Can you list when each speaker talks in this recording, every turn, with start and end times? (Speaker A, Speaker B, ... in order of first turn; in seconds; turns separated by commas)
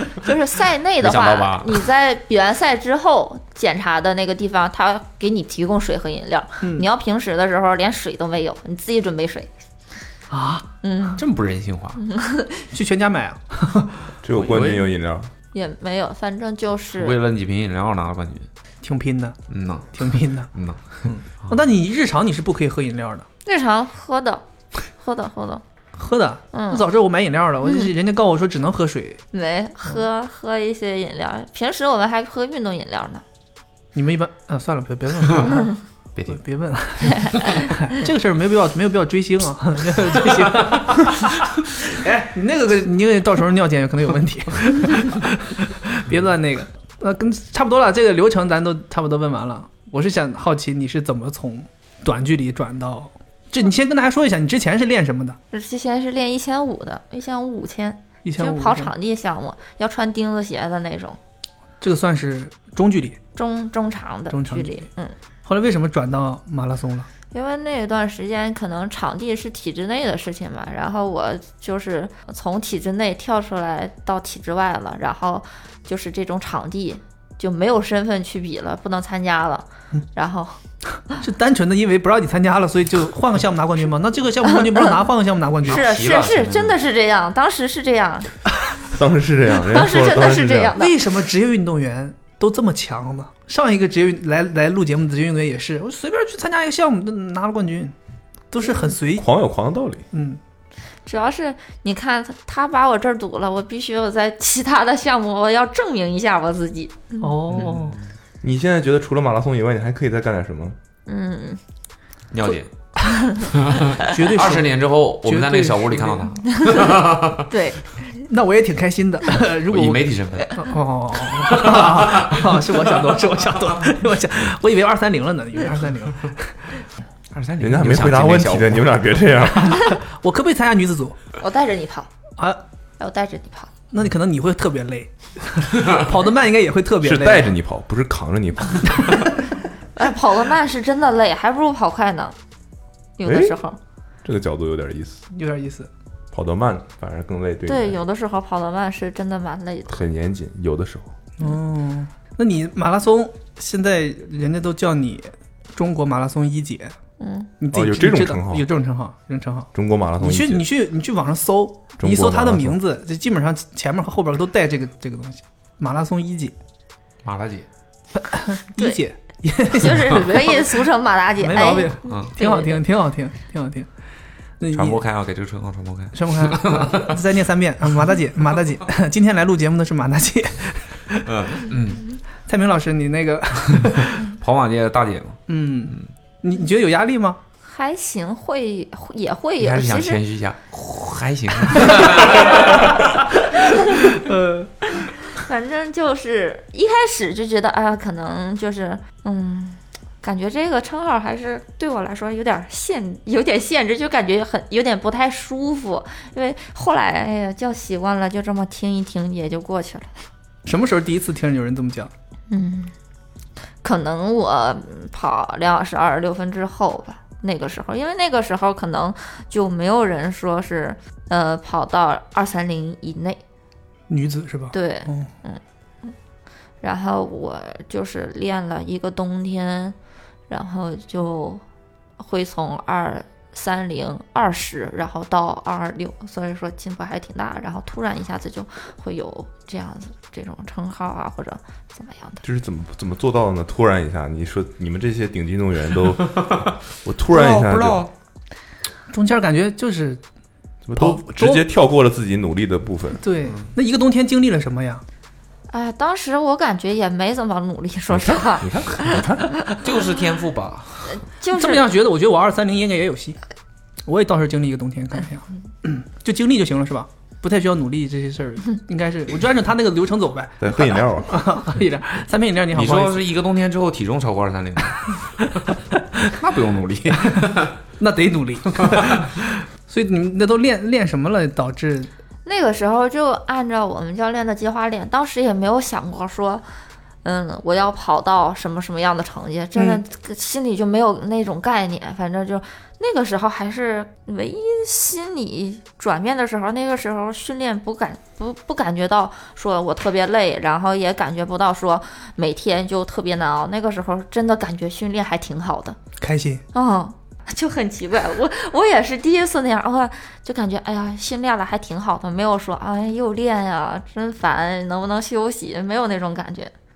Speaker A: 0.2-9.5, Speaker B: 1.0-1.8, Speaker C: 6.6-6.9, Speaker C: 10.3-10.7, Speaker A: 10.8-11.2, Speaker B: 11.2-12.0, Speaker A: 12.0-12.7, Speaker C: 12.7-14.1, Speaker D: 14.2-15.3, Speaker B: 14.3-14.9, Speaker A: 15.5-17.2, Speaker B: 16.9-18.5, Speaker C: 18.8-19.4, Speaker B: 19.5-21.6, Speaker C: 19.9-20.5, Speaker C: 21.0-23.3, Speaker A: 23.4-24.4, Speaker A: 25.0-25.6, Speaker C: 25.9-29.2, Speaker A: 26.5-26.8, Speaker A: 27.6-27.9, Speaker A: 29.3-33.2, Speaker C: 33.9-35.7, Speaker C: 36.3-55.4, Speaker A: 55.5-61.2, Speaker C: 58.2-58.9, Speaker C: 61.8-63.2, Speaker A: 63.3-65.1, Speaker C: 64.3-64.8, Speaker C: 65.4-67.1, Speaker A: 67.3-80.6, Speaker C: 81.2-85.8, Speaker B: 85.6-86.8, Speaker A: 85.7-88.3, Speaker D: 88.9-90.8, Speaker A: 89.6-91.0, Speaker C: 90.8-97.9, Speaker C: 98.5-99.2, Speaker D: 99.2-100.0, Speaker C: 100.1-100.4, Speaker A: 101.0-107.3, Speaker C: 107.2-108.0, Speaker B: 107.5-107.9, Speaker D: 108.4-110.8, Speaker A: 111.1-111.6, Speaker B: 112.3-112.7, Speaker A: 113.1-113.5, Speaker B: 113.3-117.5, Speaker C: 114.0-114.7, Speaker C: 115.2-116.3, Speaker A: 116.5-118.2, Speaker C: 118.3-126.7, Speaker B: 119.7-120.7, Speaker B: 121.3-123.0, Speaker B: 127.3-128.9, Speaker D: 127.6-129.9, Speaker C: 129.5-131.2, Speaker A: 131.4-132.1, Speaker A: 133.0-133.7, Speaker C: 133.9-137.5, Speaker D: 137.0-139.3, Speaker A: 139.9-142.3, Speaker A: 143.2-143.8, Speaker D: 143.2-143.5, Speaker D: 144.2-145.2, Speaker C: 145.3-145.9, Speaker D: 146.3-148.0, Speaker A: 147.7-150.0, Speaker D: 149.9-151.1, Speaker C: 151.4-156.9, Speaker A: 157.2-157.5, Speaker C: 157.6-166.5, Speaker D: 157.7-158.7, Speaker D: 159.7-160.7, Speaker D: 162.0-162.8, Speaker B: 167.2-167.7, Speaker C: 168.2-170.7, Speaker A: 169.7-172.8, Speaker C: 171.4-173.9, Speaker B: 172.0-172.3, Speaker C: 174.6-175.0, Speaker B: 174.7-177.2, Speaker C: 176.1-181.3, Speaker B: 181.2-182.1, Speaker C: 182.4-184.2, Speaker B: 184.1-186.1, Speaker C: 185.5-187.4, Speaker A: 187.6-190.2, Speaker B: 189.6-193.2, Speaker C: 192.2-192.8, Speaker C: 193.7-194.7, Speaker A: 195.2-210.1, Speaker C: 210.7-212.1, Speaker A: 212.5-212.9, Speaker A: 213.8-223.4, Speaker C: 224.1-225.3, Speaker A: 224.7-226.1, Speaker A: 226.8-229.9, Speaker A: 230.5-231.6, Speaker A: 232.2-242.4, Speaker D: 242.4-248.1, Speaker B: 246.3-246.6, Speaker B: 247.3-248.1, Speaker C: 249.1-250.2, Speaker D: 250.8-253.2, Speaker C: 251.0-251.6, Speaker C: 253.2-255.0, Speaker A: 255.7-259.2, Speaker D: 258.1-259.5, Speaker B: 259.8-261.2, Speaker A: 261.1-261.8, Speaker C: 261.5-263.4, Speaker C: 264.1-273.2, Speaker D: 270.6-271.4, Speaker B: 272.7-275.2, Speaker B: 276.2-277.7, Speaker C: 277.2-277.4, Speaker C: 278.0-282.1, Speaker B: 278.8-279.2, Speaker A: 282.4-286.6, Speaker A: 287.2-306.0, Speaker C: 289.7-290.0, Speaker C: 306.2-306.6, Speaker A: 306.7-316.7